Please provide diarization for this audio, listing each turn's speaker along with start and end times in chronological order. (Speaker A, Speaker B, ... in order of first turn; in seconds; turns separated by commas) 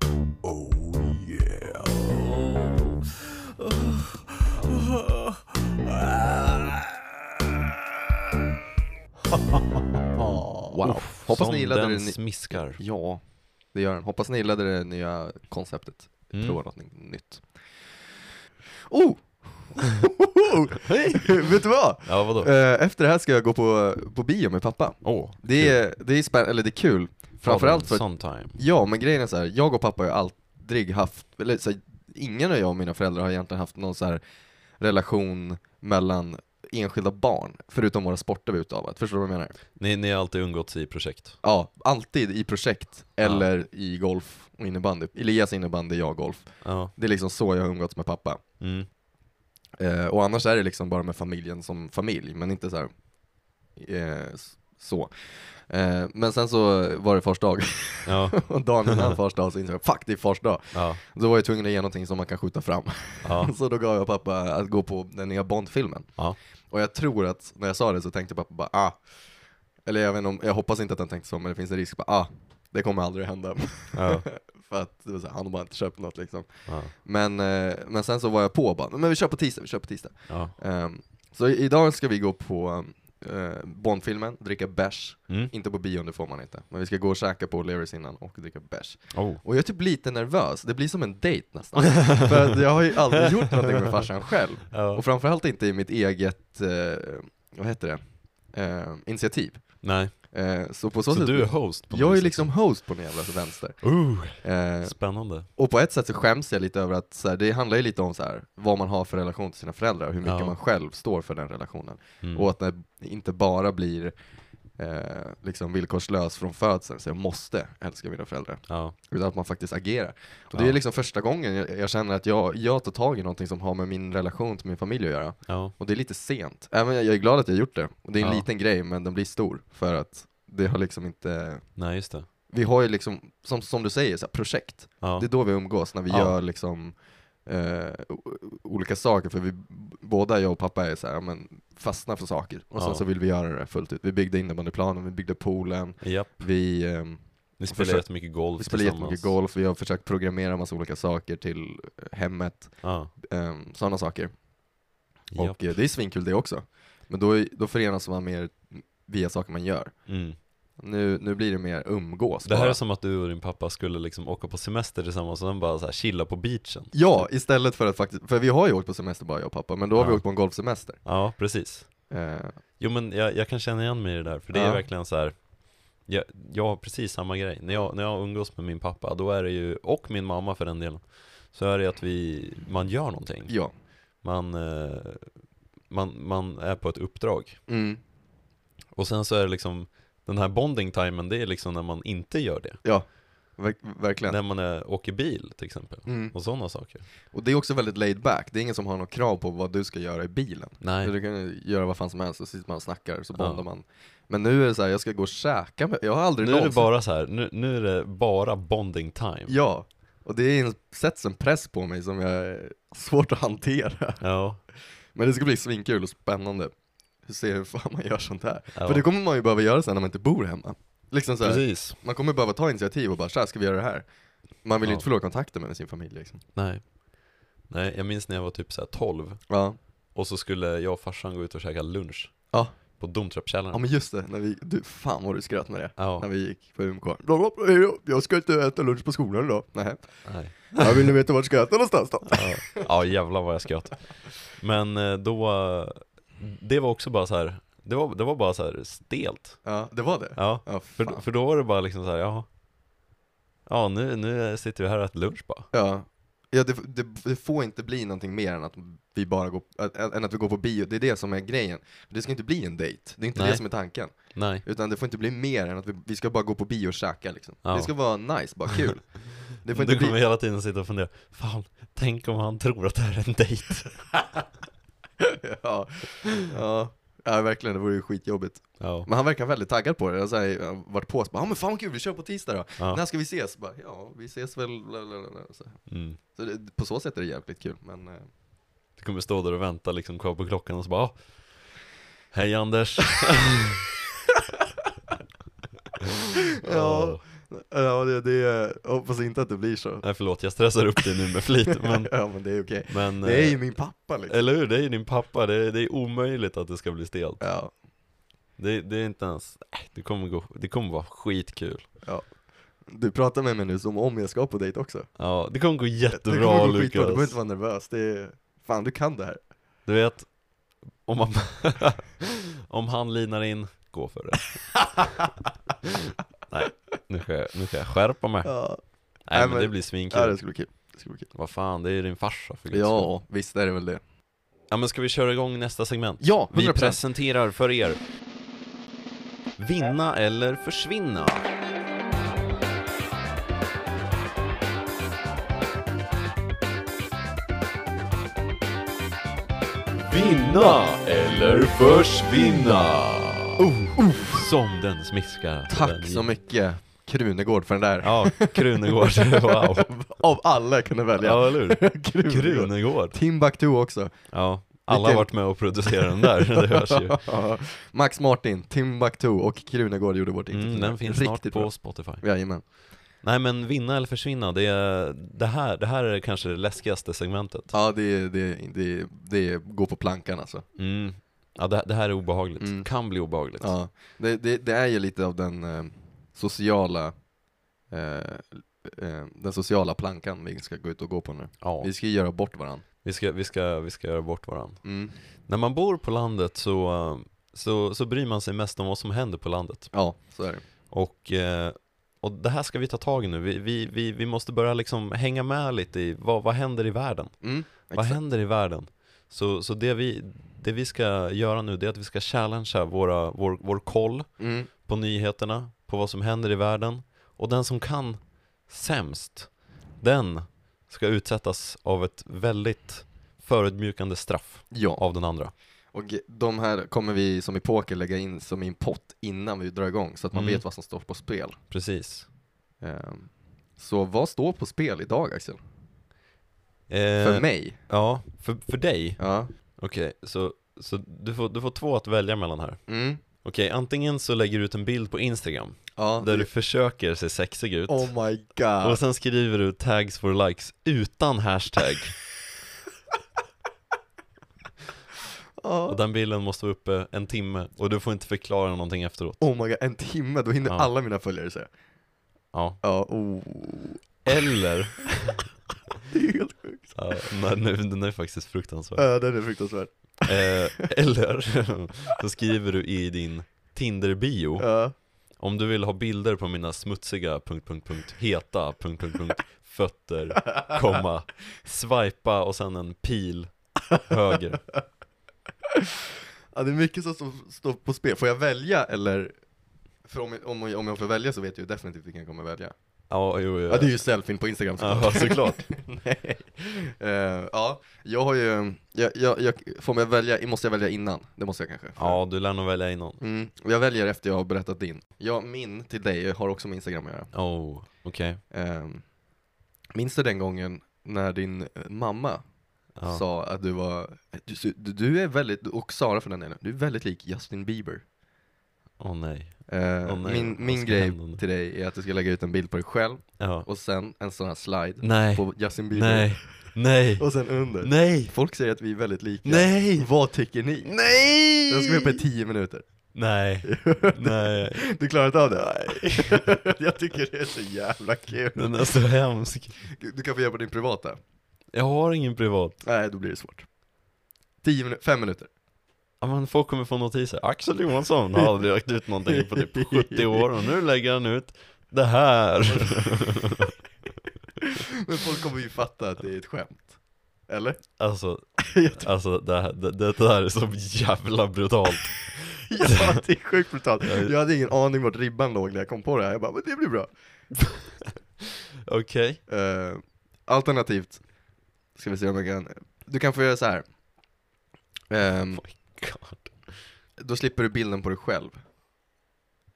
Speaker A: 0.4-2.9, Speaker A: 3.6-5.2, Speaker A: 5.9-6.8, Speaker A: 9.5-10.4, Speaker B: 10.7-17.4, Speaker C: 10.8-12.8, Speaker C: 16.3-16.6, Speaker B: 18.9-34.2, Speaker C: 20.8-22.5, Speaker C: 25.0-25.8, Speaker C: 27.4-28.6, Speaker B: 34.8-39.6, Speaker C: 39.8-41.4, Speaker B: 41.4-48.4, Speaker C: 43.2-43.5, Speaker C: 46.6-46.9, Speaker C: 48.6-48.9, Speaker B: 49.8-52.9, Speaker B: 53.8-66.1, Speaker C: 58.1-59.2, Speaker C: 60.7-61.0, Speaker C: 63.2-63.5, Speaker B: 66.7-69.0, Speaker B: 69.8-105.0, Speaker C: 73.9-74.3, Speaker C: 76.7-76.9, Speaker C: 80.3-80.5, Speaker C: 89.1-89.4, Speaker C: 91.9-92.4, Speaker C: 94.7-95.0, Speaker C: 99.8-100.2, Speaker C: 101.1-102.5, Speaker C: 103.8-105.5, Speaker B: 105.5-114.1, Speaker C: 110.2-110.5, Speaker C: 112.2-112.5, Speaker B: 114.8-131.7, Speaker C: 118.7-119.0, Speaker C: 125.5-125.7, Speaker C: 131.8-132.3, Speaker B: 132.5-154.3, Speaker C: 135.0-135.3, Speaker C: 136.1-136.4, Speaker C: 142.8-143.0, Speaker C: 146.0-146.5, Speaker C: 147.6-149.3, Speaker C: 152.8-153.1, Speaker C: 155.3-155.8, Speaker B: 155.4-160.0, Speaker C: 160.1-160.4, Speaker B: 160.8-162.8, Speaker C: 162.4-167.3, Speaker B: 166.9-171.0, Speaker C: 170.0-170.3, Speaker C: 171.0-172.1, Speaker B: 172.1-172.6, Speaker C: 172.8-183.5, Speaker B: 174.5-174.8, Speaker B: 183.5-183.7, Speaker C: 184.2-185.3, Speaker C: 185.9-187.6, Speaker B: 187.7-188.0, Speaker C: 188.9-192.8, Speaker B: 192.8-194.4, Speaker C: 194.3-197.1, Speaker B: 196.1-196.3, Speaker B: 197.3-206.9, Speaker C: 200.8-201.1, Speaker C: 203.3-203.6, Speaker C: 206.4-209.6, Speaker B: 209.5-214.2, Speaker C: 214.2-214.6, Speaker B: 215.1-216.7, Speaker B: 217.2-224.1, Speaker C: 218.7-219.1, Speaker C: 221.4-222.0, Speaker B: 224.6-226.4, Speaker C: 226.6-226.9, Speaker C: 227.7-229.5, Speaker B: 229.5-229.8, Speaker C: 230.2-233.8, Speaker B: 232.5-232.8, Speaker B: 233.7-242.9, Speaker C: 236.0-236.3, Speaker C: 240.2-241.1, Speaker C: 242.3-249.7, Speaker B: 249.6-251.2, Speaker C: 250.4-252.5, Speaker C: 253.7-255.7, Speaker B: 255.7-270.2, Speaker C: 263.4-264.6, Speaker C: 267.6-268.8, Speaker C: 269.7-274.1, Speaker B: 275.2-288.3, Speaker C: 278.8-279.1, Speaker C: 285.9-286.2, Speaker C: 289.0-293.9, Speaker C: 296.6-297.2, Speaker B: 296.6-300.1, Speaker C: 300.0-307.5, Speaker B: 301.8-304.4, Speaker B: 307.4-307.7, Speaker C: 308.6-312.0, Speaker B: 312.0-315.1, Speaker C: 315.2-317.4, Speaker B: 316.1-319.4, Speaker C: 319.9-325.1, Speaker B: 324.9-325.2, Speaker C: 326.5-330.4, Speaker B: 328.4-331.3, Speaker C: 331.3-333.1, Speaker B: 332.7-334.0, Speaker C: 334.7-338.0, Speaker B: 336.2-337.0, Speaker C: 339.6-341.5, Speaker C: 350.1-356.3, Speaker B: 353.6-354.5, Speaker B: 355.7-372.6, Speaker C: 358.0-360.0, Speaker C: 361.2-363.2, Speaker C: 364.3-367.3, Speaker C: 370.5-372.3, Speaker C: 373.2-377.7, Speaker B: 377.7-380.6, Speaker C: 380.8-383.7, Speaker B: 382.6-382.9, Speaker B: 383.6-387.2, Speaker B: 387.9-392.8, Speaker C: 391.6-391.9, Speaker C: 393.0-394.9, Speaker B: 394.8-395.1, Speaker C: 395.4-400.2, Speaker B: 399.9-400.6, Speaker C: 400.9-425.5, Speaker B: 407.4-408.2, Speaker B: 414.4-414.7, Speaker B: 424.7-425.0, Speaker B: 425.9-431.6, Speaker C: 430.3-430.6, Speaker C: 431.7-432.3, Speaker B: 432.8-435.6, Speaker C: 436.9-448.2, Speaker B: 437.2-437.8, Speaker B: 439.2-439.5, Speaker B: 442.9-443.2, Speaker B: 446.0-446.5, Speaker B: 447.9-449.0, Speaker C: 448.8-452.2, Speaker B: 455.6-456.0, Speaker C: 455.9-459.4, Speaker B: 459.4-461.7, Speaker C: 462.5-462.8, Speaker B: 462.8-464.5, Speaker C: 464.3-465.5, Speaker B: 466.1-467.2, Speaker C: 466.9-469.2, Speaker B: 469.0-470.5, Speaker C: 470.2-484.7, Speaker B: 474.6-474.9, Speaker B: 486.5-489.4, Speaker B: 490.0-492.7, Speaker C: 493.1-494.0, Speaker B: 493.7-502.2, Speaker C: 494.8-495.7, Speaker C: 502.0-503.2, Speaker B: 503.2-507.3, Speaker C: 507.3-508.4, Speaker B: 508.5-509.1, Speaker B: 509.9-512.4, Speaker C: 513.0-513.2, Speaker B: 513.0-518.0, Speaker C: 519.0-521.4, Speaker B: 519.7-531.0, Speaker C: 523.4-523.7, Speaker C: 525.0-528.4, Speaker C: 529.5-530.1, Speaker C: 530.8-532.2, Speaker B: 531.7-532.9, Speaker C: 533.1-534.9, Speaker B: 533.6-539.0, Speaker C: 535.9-536.5, Speaker C: 538.5-539.8, Speaker B: 539.8-541.2, Speaker C: 541.7-542.8, Speaker B: 542.8-543.7, Speaker B: 544.6-545.5, Speaker C: 546.2-553.8, Speaker B: 549.3-550.5, Speaker B: 552.7-553.5, Speaker B: 554.6-557.9, Speaker C: 558.0-563.2, Speaker B: 558.6-559.1, Speaker B: 562.7-567.1, Speaker C: 564.0-564.3, Speaker C: 567.6-568.1, Speaker C: 568.9-569.4, Speaker B: 569.5-571.3, Speaker B: 571.9-573.9, Speaker B: 575.1-576.0, Speaker C: 575.6-576.8, Speaker B: 577.2-578.6